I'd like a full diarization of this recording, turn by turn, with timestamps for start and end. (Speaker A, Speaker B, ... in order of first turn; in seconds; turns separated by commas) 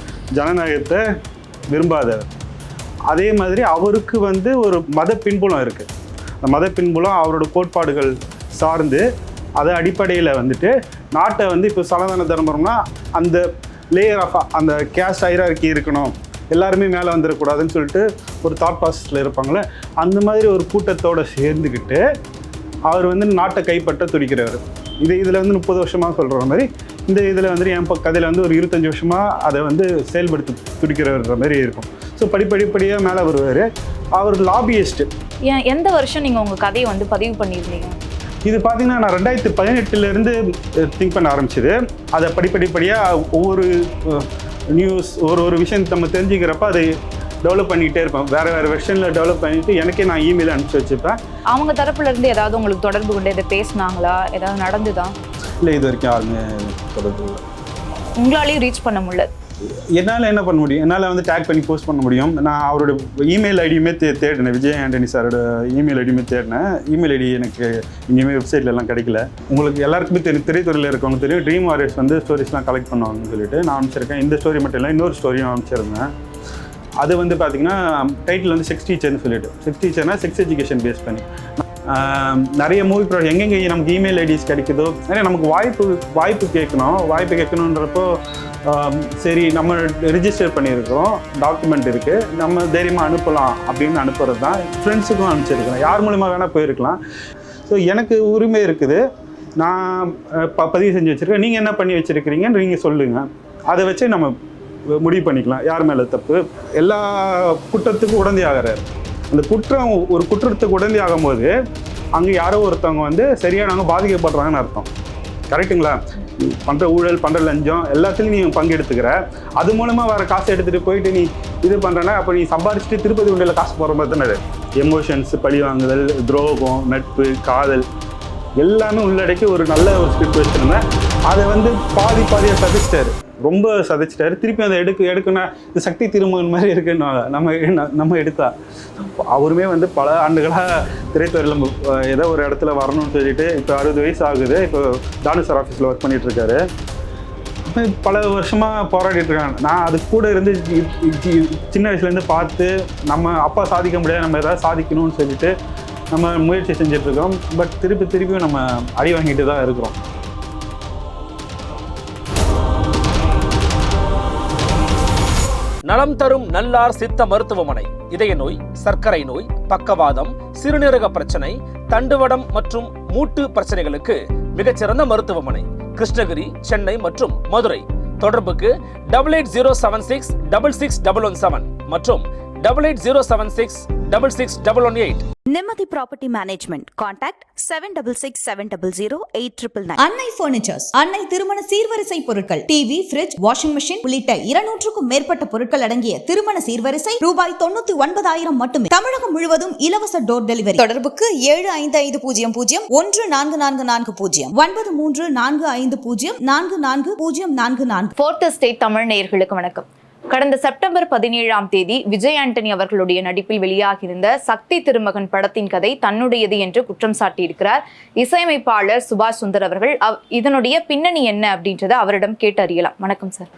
Speaker A: 0.3-1.0, Speaker A: 1.7-2.2, Speaker A: 3.1-5.9, Speaker A: 6.4-9.1, Speaker A: 9.6-22.0, Speaker A: 22.9-35.1, Speaker B: 35.5-38.0, Speaker A: 38.5-46.9, Speaker A: 47.4-51.2, Speaker B: 51.5-55.1, Speaker A: 55.6-57.4, Speaker B: 58.2-59.3, Speaker A: 59.9-76.1, Speaker A: 77.0-97.0, Speaker A: 97.7-99.0, Speaker A: 99.6-104.3, Speaker A: 104.9-111.5, Speaker A: 112.2-114.9, Speaker A: 115.5-127.9, Speaker A: 128.6-146.6, Speaker A: 147.7-155.6, Speaker A: 156.1-160.0, Speaker C: 165.8-185.3, Speaker D: 185.5-190.0, Speaker E: 190.0-208.1, Speaker B: 208.2-223.5